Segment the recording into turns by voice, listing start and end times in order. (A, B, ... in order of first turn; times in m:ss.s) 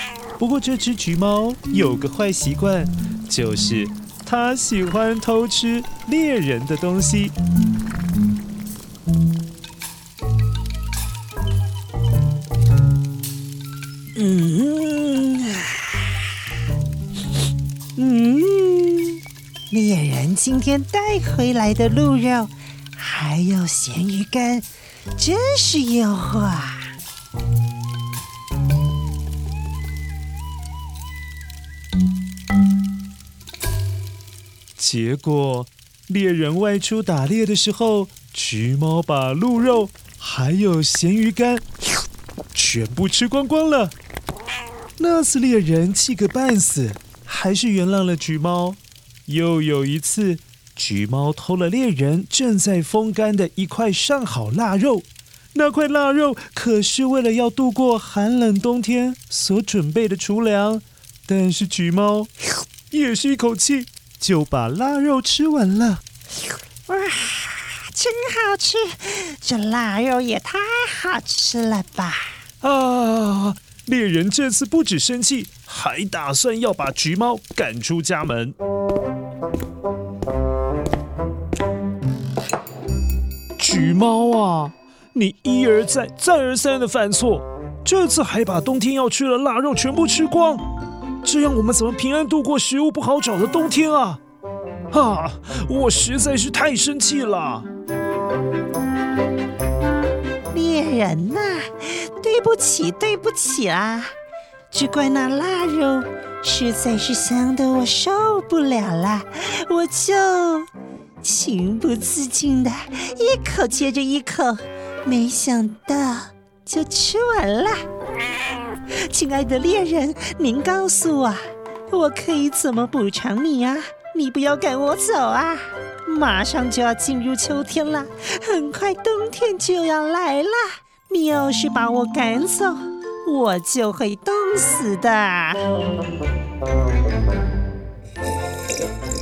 0:00.4-0:07.3 A
0:14.2-0:16.2 B
0:18.0-0:26.9 B
0:34.8-0:41.6 A
0:42.5-0:43.9 A
0:45.0-1:02.3 A
1:02.9-1:06.0 A
1:06.9-1:12.4 B
1:12.6-1:18.6 A
1:23.6-1:30.6 A
1:31.2-1:34.2 A
1:34.9-1:37.7 A
1:40.5-1:44.1 B
1:44.7-1:50.7 B
1:51.2-1:57.8 B
1:58.8-2:01.4 B
2:01.9-2:15.7 B